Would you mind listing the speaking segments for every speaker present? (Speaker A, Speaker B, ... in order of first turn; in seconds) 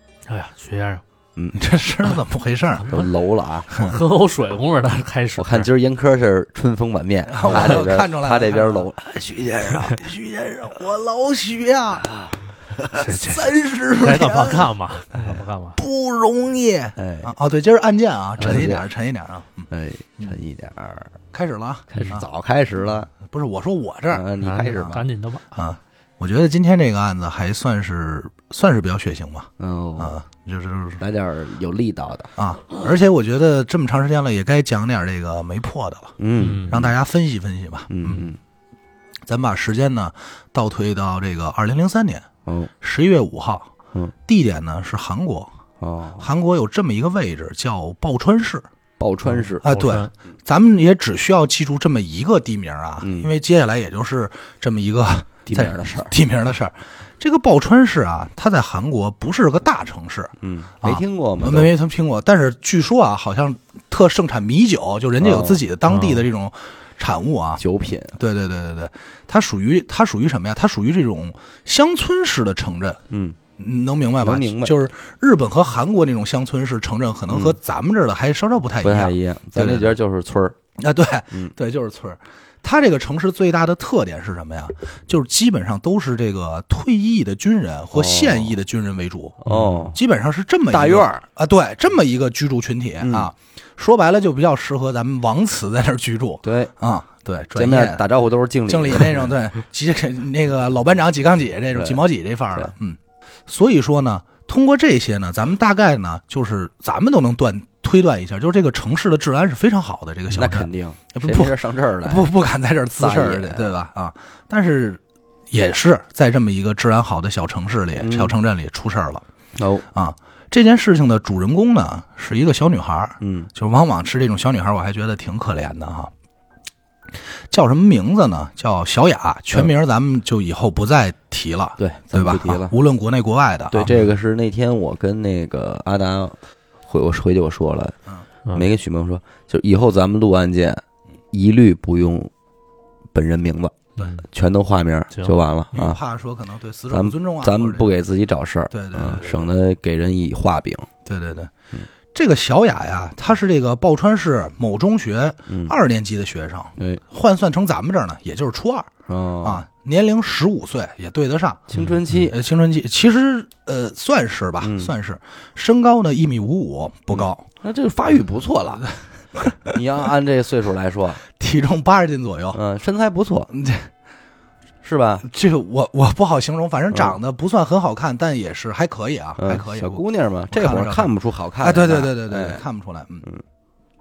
Speaker A: 0.3-1.0, 2.8-3.1, 3.7-5.7, 7.5-7.8, 12.9-15.8, 24.4-25.4, 36.4-36.8, 49.3-50.1, 65.9-66.2, 89.5-89.9, 144.0-144.2, 161.7-162.0
Speaker B: 1.4-1.6, 2.9-3.8, 5.4-9.8, 12.0-12.4, 16.9-17.3, 18.4-18.8, 19.7-21.1, 21.9-23.1, 24.1-25.0, 29.6-30.1, 31.0-32.3, 36.2-36.9, 37.9-38.4, 42.5-42.7, 45.8-46.2, 49.0-49.7, 53.0-53.3, 55.5-56.1, 60.4-61.7, 65.2-65.6, 67.6-68.2, 73.1-73.4, 74.2-74.8, 77.3-77.5, 78.8-80.6, 87.9-88.6, 89.4-90.0, 90.7-91.2, 93.0-93.3, 96.4-96.7, 97.5-99.2, 101.7-102.0, 110.3-112.3, 113.0-113.7, 118.0-118.3, 119.6-119.8, 123.2-123.5, 131.8-132.7, 133.7-137.9, 138.5-142.3, 143.1-146.0, 146.9-150.9, 155.5-155.7, 156.8-157.0, 159.1-159.6, 161.7-162.3, 164.6-164.9, 167.6-168.8, 169.7-171.2, 172.5-173.5, 174.8-175.2, 179.4-182.6
Speaker C: 1.6-2.9, 7.3-12.1, 12.9-14.7, 15.3-19.7, 21.3-22.2, 23.2-31.0, 32.4-36.2, 36.7-38.2, 39.3-42.3, 42.8-43.7, 44.2-45.5, 46.2-48.6, 49.6-67.6, 68.2-73.0, 73.6-80.0, 80.8-89.4, 89.9-98.0, 98.7-115.0, 115.5-119.2, 119.9-126.1, 127.5-133.9, 145.7-147.9, 148.7-149.5, 151.1-151.5, 152.1-158.9, 159.4-167.4, 169.3-169.7, 171.4-172.6, 173.5-173.9, 175.2-181.1, 181.6-183.2